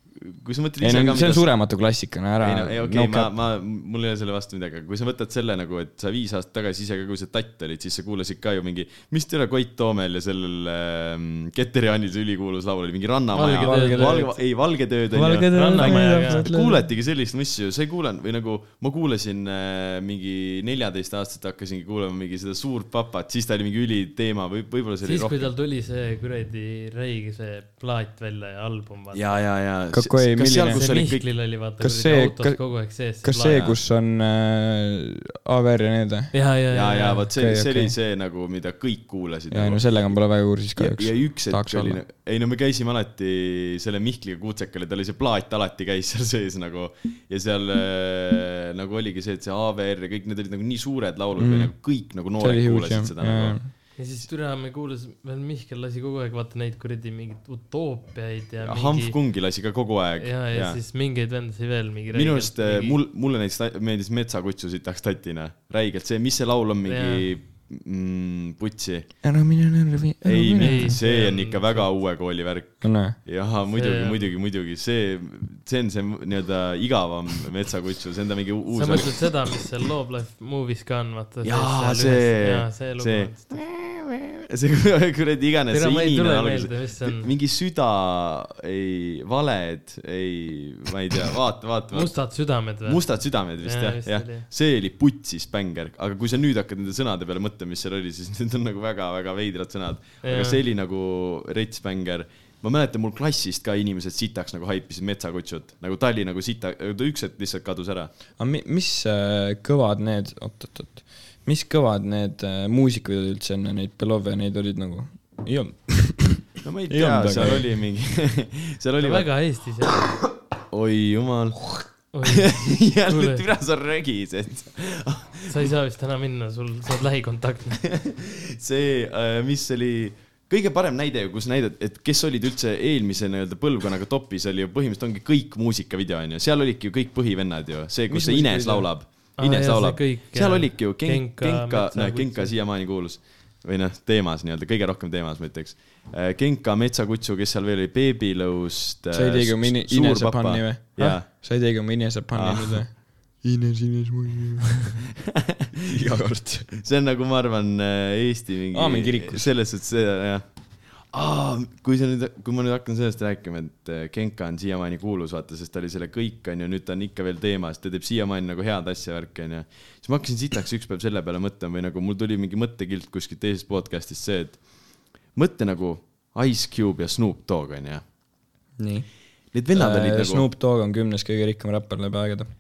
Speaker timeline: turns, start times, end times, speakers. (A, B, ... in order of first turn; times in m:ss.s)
0:00.1-0:01.5 A
0:00.8-0:03.3 B
0:02.4-0:25.5 A
0:13.3-0:14.4 C
0:13.5-0:14.3 B
0:15.1-0:16.8 B
0:15.5-0:16.4 C
0:25.0-0:29.3 C
0:29.1-0:31.2 A
0:29.9-0:30.8 B
0:30.7-0:33.7 C
0:31.8-0:32.6 B
0:33.2-0:36.3 B
0:36.3-0:37.2 C
0:36.7-0:40.2 A
0:37.3-0:37.9 B
0:39.5-0:42.0 B
0:40.8-0:53.6 A
0:51.4-0:51.7 B
0:52.4-0:53.7 B
0:54.0-0:59.2 C
0:58.6-1:00.8 A
1:00.2-1:03.0 C
1:02.1-1:09.1 A
1:06.8-1:07.3 C
1:09.2-1:11.0 B
1:10.2-1:19.3 A
1:10.6-1:11.9 C
1:12.8-1:13.2 B
1:13.7-1:14.3 C
1:18.7-1:23.6 C
1:21.4-1:32.2 A
1:25.7-1:27.3 C
1:31.9-1:34.5 C
1:32.8-1:48.1 A
1:40.2-1:40.6 C
1:48.4-1:57.6 B
1:56.6-1:59.3 A
1:59.0-2:00.0 C
2:00.7-2:05.7 A
2:02.1-2:03.4 C
2:05.5-2:07.8 C
2:07.8-2:31.3 A
2:18.1-2:18.9 B
2:19.4-2:22.5 C
2:29.1-2:35.0 B
2:32.3-2:32.8 A
2:35.9-2:36.7 B
2:36.7-2:40.4 A
2:38.7-2:39.5 B
2:41.1-2:54.6 A
2:55.3-2:58.0 A
2:58.8-2:59.1 B
2:59.5-3:00.5 A
2:59.7-3:02.5 B